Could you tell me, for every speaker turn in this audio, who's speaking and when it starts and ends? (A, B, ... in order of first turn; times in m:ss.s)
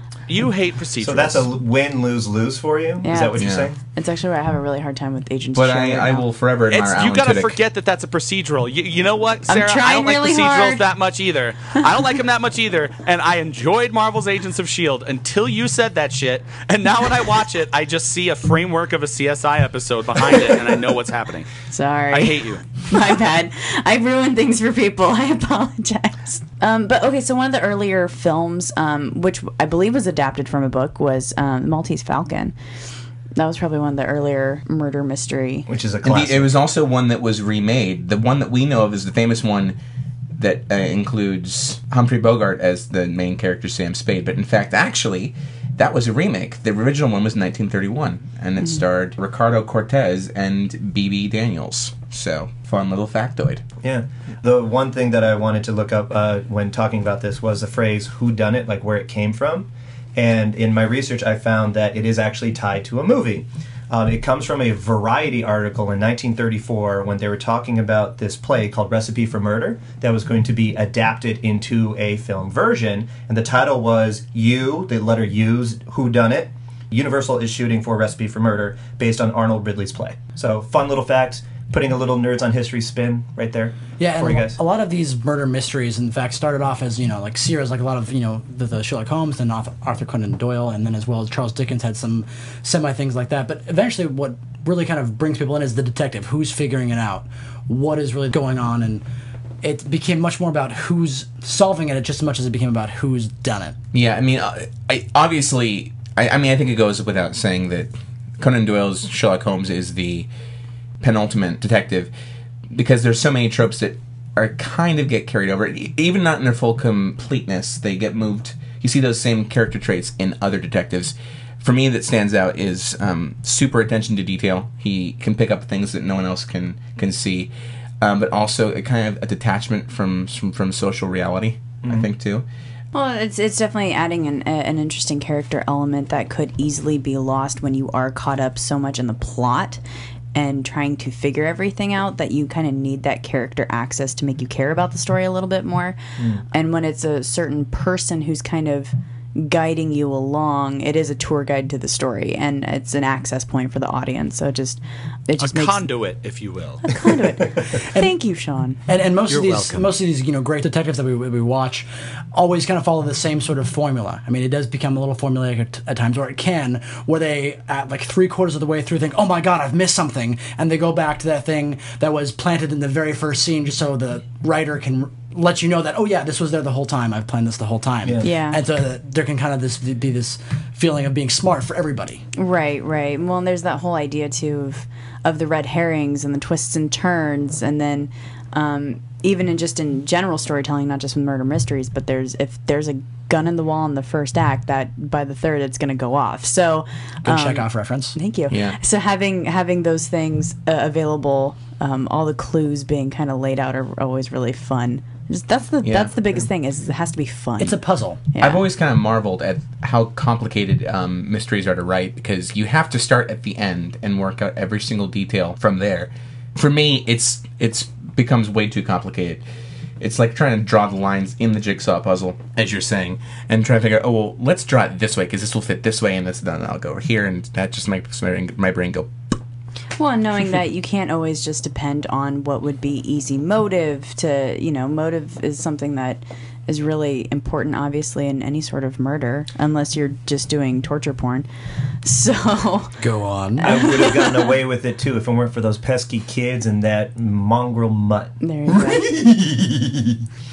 0:00.3-0:01.5 A
0:01.0-0:03.8 B
0:03.0-0:06.2 C
0:03.4-0:03.7 D
0:05.5-0:07.6 D
0:06.7-0:21.5 A
0:09.5-0:10.8 C
0:21.7-0:32.5 C
0:22.1-0:22.6 A
0:33.4-0:35.7 C
0:35.7-0:36.6 B
0:36.0-0:39.8 D
0:40.4-0:53.6 D
0:53.8-1:24.6 B
1:24.0-1:39.0 E
1:39.6-1:43.8 E
1:43.9-1:50.3 D
1:51.0-1:52.1 D
1:52.7-2:07.5 D
2:08.0-2:12.5 D
2:12.9-2:19.8 C
2:20.3-2:26.0 C
2:26.2-2:26.4 B
2:26.5-2:35.9 C
2:35.4-2:36.8 A
2:36.8-2:38.8 C
2:37.7-2:38.2 E
2:38.8-3:02.2 E
2:39.3-2:40.0 A
2:58.0-2:58.3 B
2:58.2-2:58.6 C
3:02.4-3:27.8 C
3:17.2-3:18.2 E
3:18.5-3:18.8 D
3:25.8-3:26.2 D
3:27.6-3:28.2 E
3:28.3-3:28.6 C
3:28.4-3:39.4 D
3:40.0-3:49.1 D
3:50.0-4:01.5 C
4:02.0-4:03.0 C
4:03.0-4:03.7 E
4:03.6-4:04.6 C
4:03.6-4:10.2 B
4:08.4-4:09.1 C